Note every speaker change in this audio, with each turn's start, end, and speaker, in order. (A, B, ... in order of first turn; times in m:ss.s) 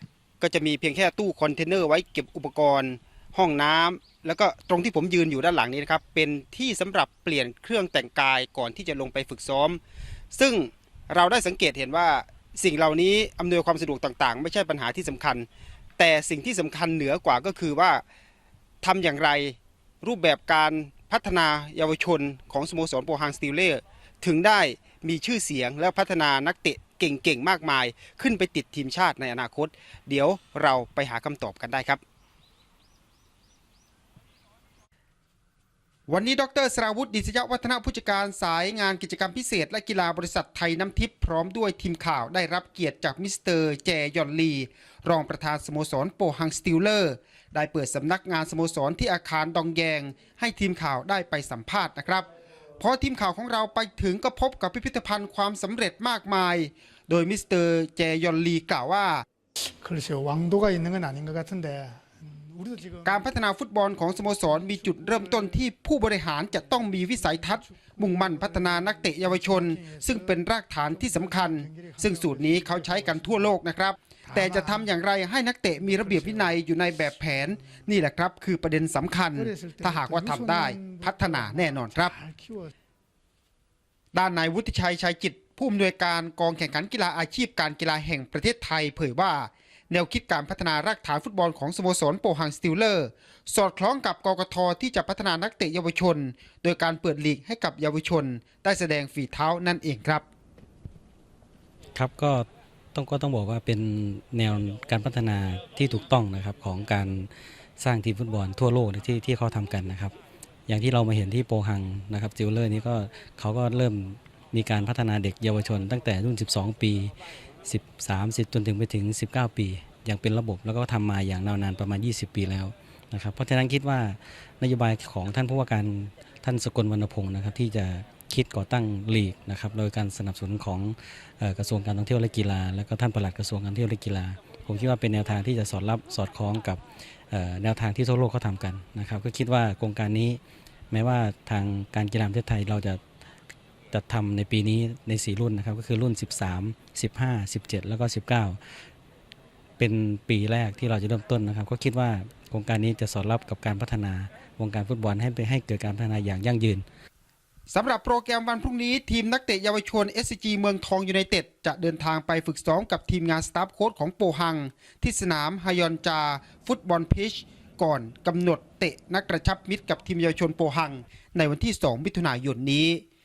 0:00.4-0:09.8 A
0:10.3-0:15.5 A
0:16.0-0:18.0 A
0:18.8-0:32.0 A
0:36.1-0:52.3 A
0:52.8-0:59.2 A
0:59.8-1:03.3 B
1:03.0-1:22.1 A
1:04.2-1:05.6 B
1:06.6-1:10.4 B
1:10.9-1:13.5 B
1:14.2-1:14.9 B
1:15.8-1:16.6 B
1:17.3-1:17.6 B
1:19.4-1:22.7 B
1:24.1-1:40.3 A
1:41.9-1:50.2 C
1:50.7-2:20.4 C
2:20.9-2:23.0 C
2:23.9-2:28.6 C
2:29.8-2:36.8 C
2:37.7-2:53.0 A